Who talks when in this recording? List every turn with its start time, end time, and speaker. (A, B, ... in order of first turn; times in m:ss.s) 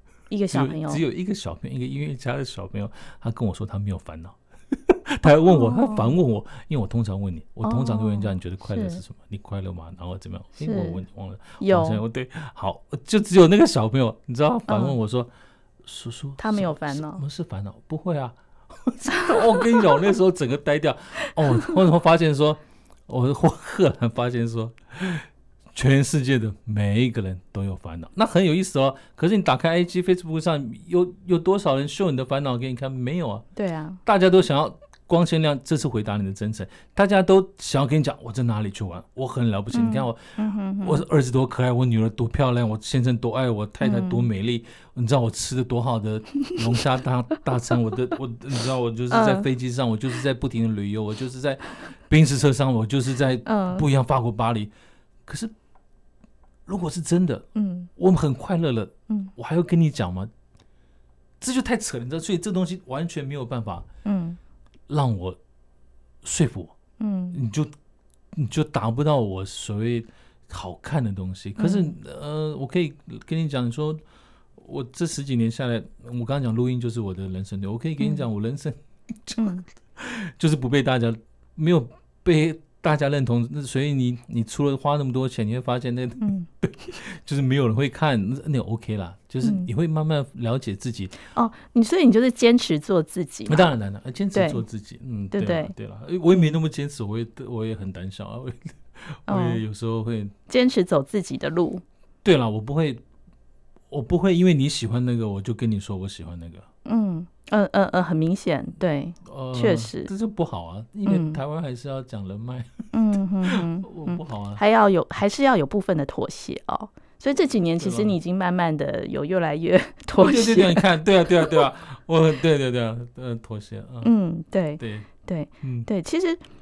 0:00.3-0:01.0 A
0:00.5-0:15.3 B
0:05.2-0:06.1 A
0:07.6-0:09.0 A
0:10.6-0:11.0 A
0:11.6-0:12.0 A
0:14.7-0:15.0 A
0:15.8-0:33.4 B
0:16.4-0:17.2 A
0:19.2-0:19.8 A
0:21.2-0:21.7 A
0:33.6-0:34.0 A
0:34.0-0:54.7 B
0:39.7-0:41.0 A
0:43.8-0:44.3 A
0:49.1-0:49.5 A
0:53.4-0:53.9 A
0:55.3-0:55.5 B
0:56.7-0:57.5 B
0:57.6-0:57.9 A
0:58.0-1:00.3 B
1:01.4-1:03.9 B
1:04.0-1:04.4 A
1:04.9-1:05.4 B
1:06.2-1:06.8 B
1:07.0-1:07.4 A
1:07.3-1:07.7 B
1:08.3-1:14.0 B
1:11.6-1:11.9 A
1:14.6-1:31.2 B
1:18.0-1:18.2 A
1:19.4-1:19.6 A
1:26.2-1:26.5 A
1:29.4-1:29.7 A
1:31.3-1:33.7 A
1:33.5-1:40.3 B
1:34.3-1:34.6 A
1:35.3-1:35.7 A
1:39.3-1:39.6 A
1:40.5-1:41.8 A
1:42.2-1:43.0 B
1:43.9-1:46.7 B
1:46.8-1:50.1 A
1:49.2-1:52.9 B
1:51.1-1:51.4 A
1:52.9-2:00.8 A
1:53.4-1:54.6 B
1:57.8-1:58.2 B
2:00.2-2:04.1 B
2:04.0-2:06.4 A
2:04.8-2:05.1 B
2:05.6-2:05.9 B